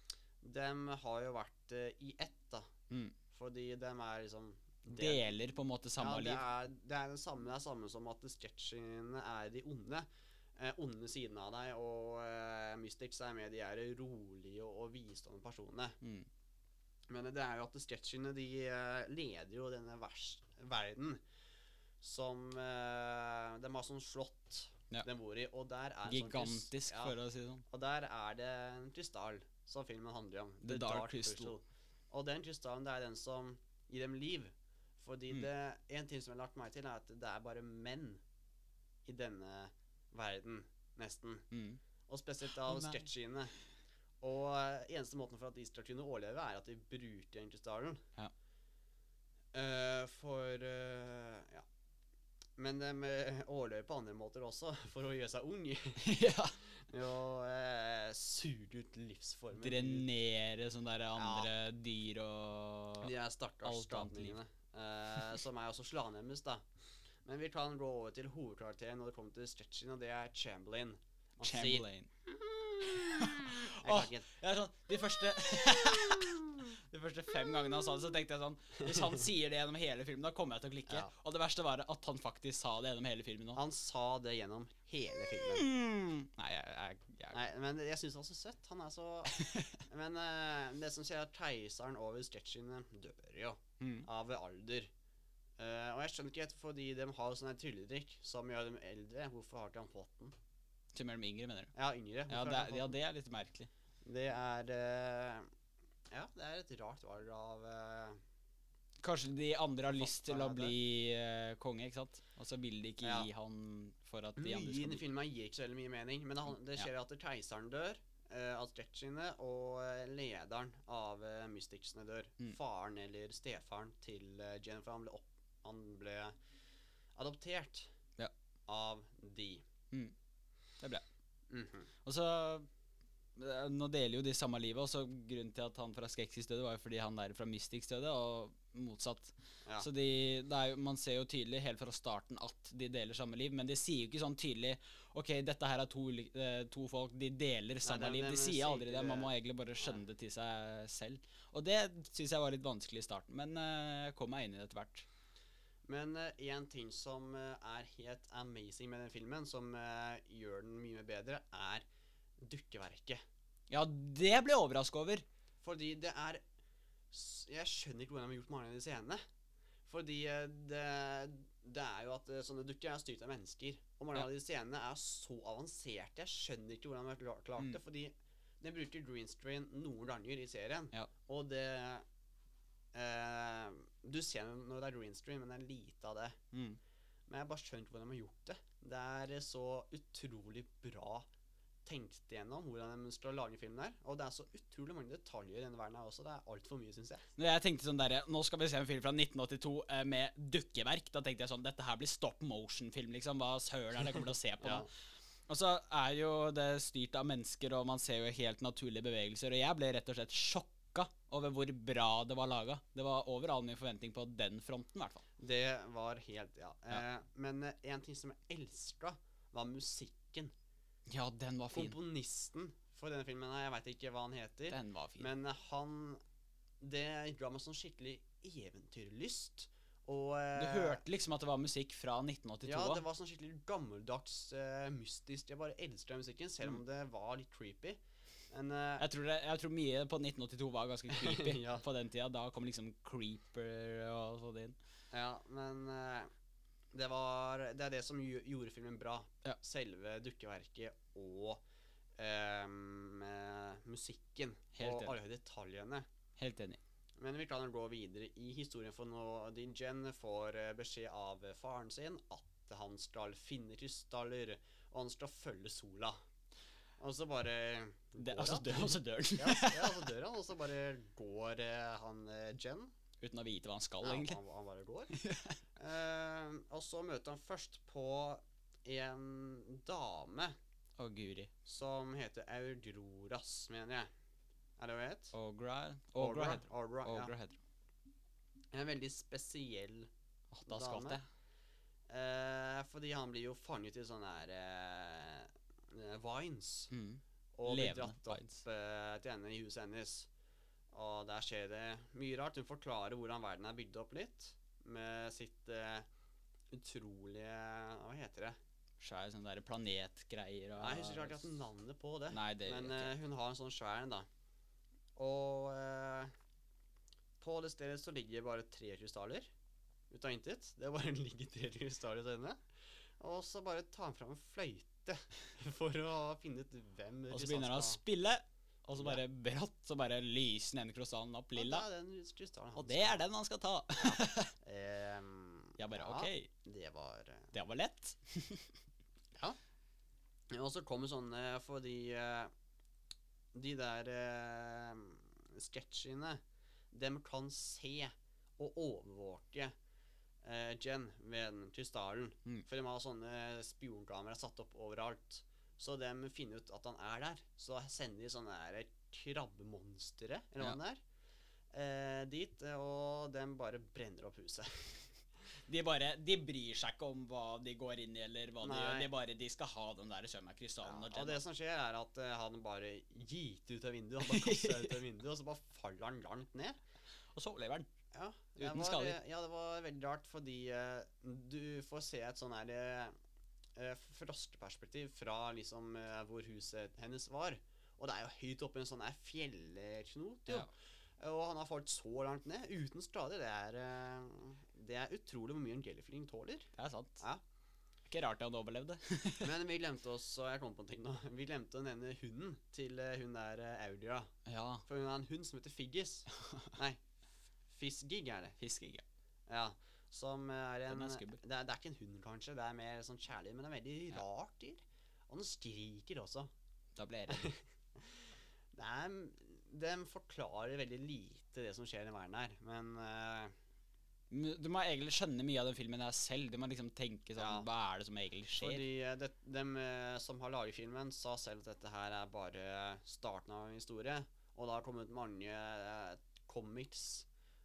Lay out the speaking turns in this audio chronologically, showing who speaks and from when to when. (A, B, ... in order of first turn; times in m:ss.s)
0:00.4-0:02.7 A
0:02.9-0:03.2 B
0:03.3-0:05.2 A
0:04.9-0:06.4 B
0:06.0-0:16.0 A
0:16.0-0:16.3 B
0:17.1-0:21.2 A
0:22.0-0:27.2 A
0:26.1-0:27.6 B
0:27.7-0:38.2 A
0:30.6-0:31.6 B
0:39.1-0:41.5 A
0:41.5-0:41.8 B
0:42.1-0:43.5 A
0:42.6-0:43.0 B
0:44.2-0:48.0 A
0:49.5-0:51.7 A
0:52.6-0:56.2 A
0:56.0-0:56.6 B
0:56.8-1:00.1 A
0:59.6-1:03.1 B
1:01.2-1:01.5 A
1:03.0-1:06.6 A
1:03.6-1:04.4 B
1:07.2-1:11.9 A
1:11.4-1:12.1 B
1:12.6-1:14.3 A
1:12.9-1:23.6 B
1:18.8-1:19.1 A
1:23.6-1:25.7 A
1:25.2-1:27.4 B
1:27.3-1:34.9 A
1:29.4-1:29.8 B
1:33.8-1:34.1 B
1:35.6-1:40.4 A
1:40.9-1:41.7 B
1:41.8-1:43.0 A
1:42.3-1:43.7 B
1:44.0-1:45.5 A
1:46.1-1:48.2 A
1:49.0-1:55.0 B
1:49.9-1:50.8 A
1:53.0-1:53.3 A
1:54.4-2:06.3 A
2:07.2-2:07.9 A
2:08.7-2:09.6 A
2:11.5-2:11.9 A
2:12.0-2:12.7 B
2:13.4-2:35.1 B
2:27.8-2:30.0 A
2:35.8-2:41.8 A
2:42.4-2:43.2 A
2:43.7-2:45.2 B
2:45.6-2:46.4 A
2:47.1-2:49.2 A
2:49.9-3:02.0 A
3:02.9-3:06.4 A
3:06.5-3:06.8 B
3:07.3-3:11.3 A
3:11.9-3:17.3 A
3:17.4-3:24.9 B
3:24.6-3:24.9 A
3:25.5-3:35.2 B
3:35.4-3:40.5 A
3:41.1-3:42.0 B
3:41.7-3:46.2 A
3:44.7-3:45.3 B
3:46.8-3:51.0 A
3:50.6-3:53.0 B
3:52.6-3:58.0 A
3:58.5-3:59.1 A
3:59.0-4:04.8 B
4:01.1-4:01.8 A
4:05.1-4:06.3 A
4:06.9-4:11.6 A
4:12.2-4:16.1 A
4:14.8-4:15.2 B
4:16.4-4:16.8 B
4:17.2-4:26.2 A
4:27.0-4:32.9 A
4:28.2-4:30.1 B
4:33.2-4:34.4 B
4:34.0-4:35.2 A
4:35.1-4:35.6 B
4:35.8-4:40.6 A
4:41.0-4:41.5 B
4:41.7-4:44.1 A
4:44.8-4:45.4 A
4:45.3-4:47.6 B
4:46.2-4:47.3 A
4:48.7-4:50.1 A
4:50.5-4:51.2 B
4:50.7-4:51.2 A
4:52.1-4:56.9 A
4:56.9-4:58.6 B
4:57.6-5:00.3 A
5:00.9-5:06.1 A
5:06.7-5:08.6 A
5:09.0-5:11.5 B
5:10.8-5:14.3 A
5:12.3-5:13.1 B
5:15.2-5:16.3 A
5:17.4-5:19.5 A
5:20.1-5:22.6 A
5:23.2-5:28.0 A
5:27.3-5:31.9 B
5:31.6-5:33.2 A
5:32.8-5:34.5 B
5:34.0-5:37.5 A
5:35.8-5:36.5 B
5:37.5-5:38.8 B
5:40.5-5:42.5 A
5:43.5-5:46.4 A
5:46.9-5:49.7 A
5:50.4-6:01.0 A
6:01.7-6:05.0 A
6:05.7-6:11.4 B
6:08.6-6:09.1 A
6:10.8-6:16.8 A
6:14.2-6:15.0 B
6:17.3-6:17.9 B
6:18.1-6:23.2 A
6:18.6-6:19.2 B
6:23.8-6:37.4 A
6:36.8-6:37.2 B
6:38.1-6:39.5 B
6:39.4-6:44.3 A
6:44.5-6:44.8 B
6:44.9-6:47.0 A
6:46.4-6:46.7 B
6:47.7-6:48.6 A
6:48.6-6:49.0 B
6:49.5-6:56.5 A
6:50.9-6:51.4 B
6:57.0-6:57.5 B
6:57.3-7:03.5 A
7:04.3-7:08.8 B
7:07.4-7:07.7 A
7:08.6-7:17.3 A